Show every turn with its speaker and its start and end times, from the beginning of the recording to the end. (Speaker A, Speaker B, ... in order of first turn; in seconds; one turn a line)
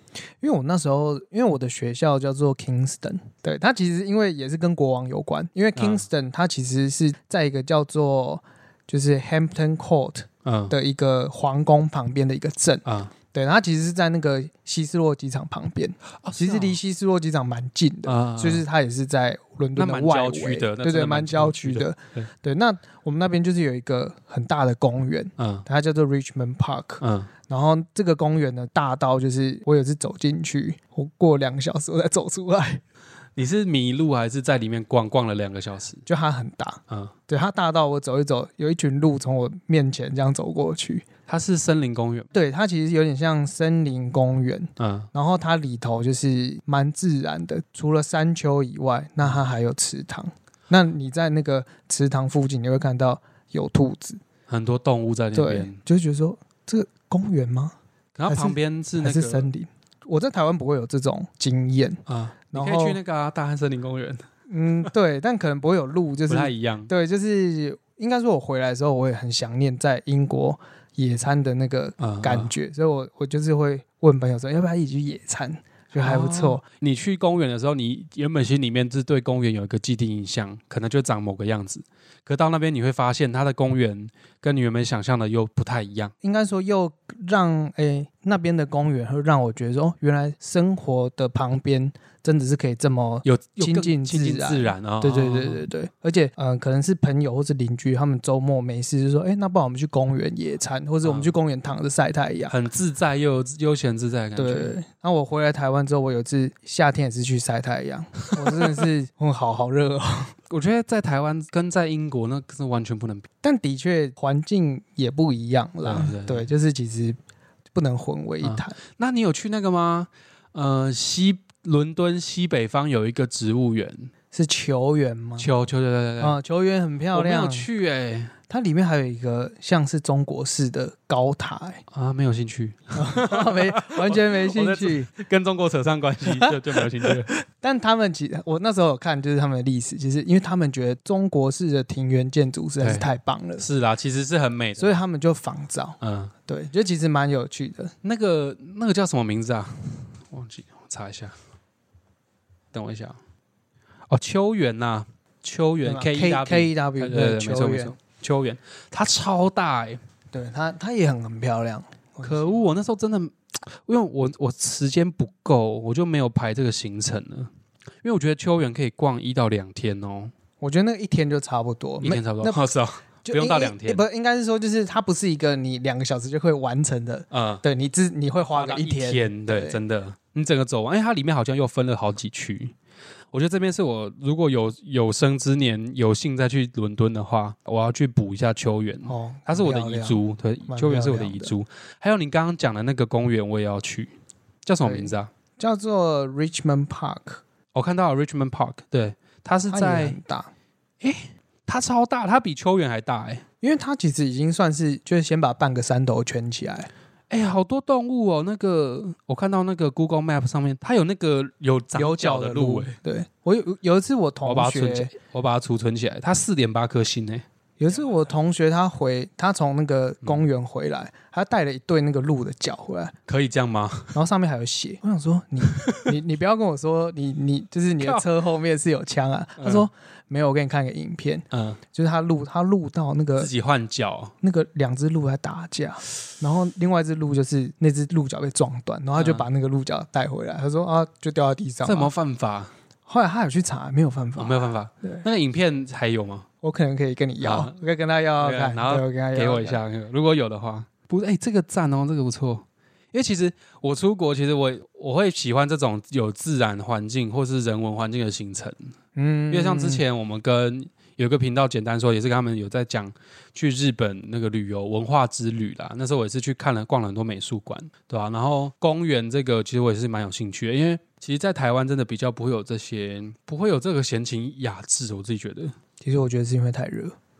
Speaker A: 0.4-32.8
Speaker B: 5.8-6.0
Speaker B: 10.4-10.7
Speaker B: 12.8-13.1
Speaker B: 16.2-16.8
Speaker B: 18.1-18.6
Speaker B: 19.7-22.3
Speaker B: 25.4-25.6
Speaker B: 27.0-27.3
Speaker B: 33.4-36.0
Speaker A: 36.0-41.0
Speaker B: 41.3-42.3
Speaker A: 42.3-54.2
Speaker B: 44.8-45.1
Speaker B: 54.5-55.8
Speaker A: 55.3-57.7
Speaker B: 58.1-59.5
Speaker A: 58.3-63.0
Speaker B: 62.1-64.2
Speaker A: 64.5-76.6
Speaker B: 66.3-66.9
Speaker B: 72.0-72.5
Speaker B: 76.0-86.1
Speaker A: 86.2-102.5
Speaker B: 93.2-95.6
Speaker B: 101.0-101.3
Speaker B: 102.5-104.8
Speaker A: 104.3-110.3
Speaker B: 108.4-108.8
Speaker B: 110.5-113.3
Speaker A: 113.4-117.2
Speaker B: 115.8-116.5
Speaker A: 117.7-118.8
Speaker B: 118.4-124.1
Speaker A: 124.3-125.5
Speaker B: 125.4-126.3
Speaker A: 126.2-127.7
Speaker B: 127.1-128.3
Speaker A: 128.5-131.8
Speaker B: 131.9-137.3
Speaker A: 132.9-135.1
Speaker A: 136.2-143.6
Speaker B: 142.8-144.9
Speaker A: 144.8-147.9
Speaker B: 146.0-146.3
Speaker B: 148.0-151.3
Speaker B: 152.7-153.2
Speaker B: 154.1-160.0
Speaker A: 155.8-157.9
Speaker A: 160.3-162.6
Speaker B: 162.2-167.5
Speaker B: 168.0-170.3
Speaker A: 170.6-172.7
Speaker B: 172.0-174.0
Speaker A: 173.3-179.8
Speaker B: 177.3-177.6
Speaker B: 178.5-182.7
Speaker B: 183.3-194.1
Speaker A: 189.1-191.5
Speaker B: 194.6-195.3
Speaker A: 194.8-197.4
Speaker B: 197.7-200.2
Speaker A: 199.7-200.5
Speaker B: 201.0-203.4
Speaker A: 203.6-206.9
Speaker B: 207.3-212.9
Speaker A: 211.9-215.1
Speaker B: 214.4-217.4
Speaker A: 217.8-223.1
Speaker B: 223.3-224.1
Speaker A: 224.1-233.5
Speaker B: 225.6-226.2
Speaker B: 228.0-228.2
Speaker B: 229.6-229.9
Speaker B: 231.5-231.8
Speaker B: 233.4-234.3
Speaker A: 234.4-242.1
Speaker B: 239.2-239.5
Speaker B: 241.8-242.7
Speaker A: 243.1-245.2
Speaker B: 244.3-246.4
Speaker A: 246.6-249.8
Speaker B: 247.4-247.8
Speaker B: 248.4-258.9
Speaker A: 259.1-260.0
Speaker B: 259.5-275.7
Speaker A: 276.0-277.1